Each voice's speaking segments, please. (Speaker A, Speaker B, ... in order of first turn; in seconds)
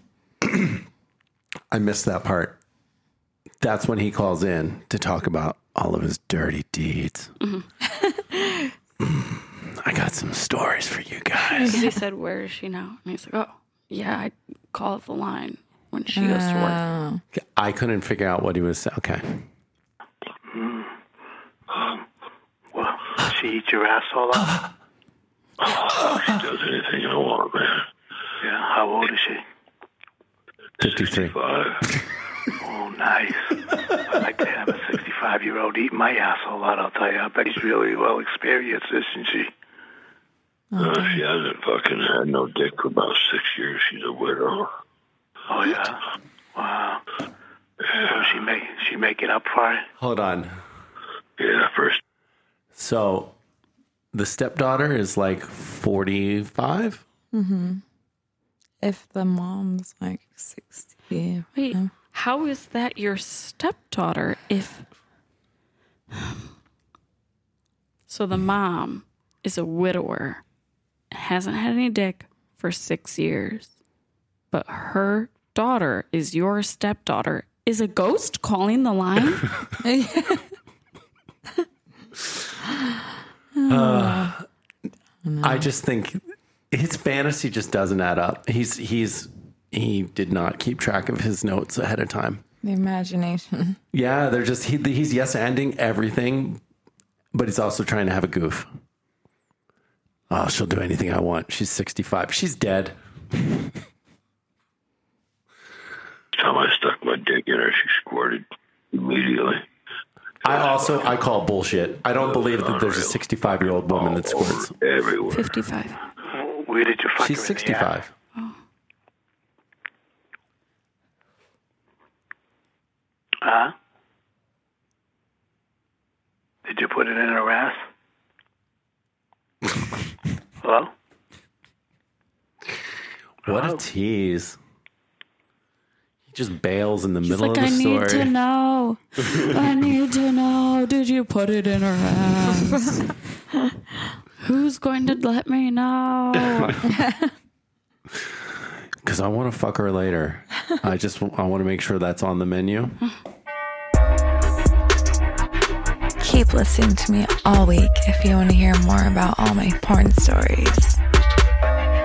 Speaker A: 0.4-0.8, 1.7-2.6, 3.6-7.3, 9.0-11.7, 17.3-19.4, 26.1-26.4, 30.8-31.4, 50.0-50.6, 52.8-53.3, 54.1-57.0, 83.7-84.4, 85.4-92.4, 93.9-96.6, 97.3-98.7, 100.3-103.6, 110.4-114.7, 117.2-118.1, 133.5-134.6, 136.3-138.3, 149.0-153.0
Speaker B: 7.4-7.7, 11.7-16.8, 61.5-64.8, 68.1-70.4, 71.1-73.7, 74.5-79.5, 115.3-116.0, 137.2-143.1, 144.4-146.8
Speaker C: 8.0-8.7, 11.5-12.0, 16.1-17.2, 40.7-41.2, 57.3-57.8, 58.8-61.9, 79.8-80.5, 83.5-84.4, 85.2-85.7, 92.6-93.8, 146.8-147.3, 156.2-161.0
Speaker D: 20.5-20.9, 22.7-24.6, 28.4-29.4, 32.6-39.5, 45.5-46.0, 46.5-47.0, 48.0-49.9, 116.3-118.0, 123.4-123.7, 126.7-127.8, 130.6-130.9, 133.5-133.8
Speaker E: 25.6-27.9, 30.8-31.8, 40.8-44.7, 51.4-52.0, 106.3-109.7, 110.4-111.2, 112.0-115.6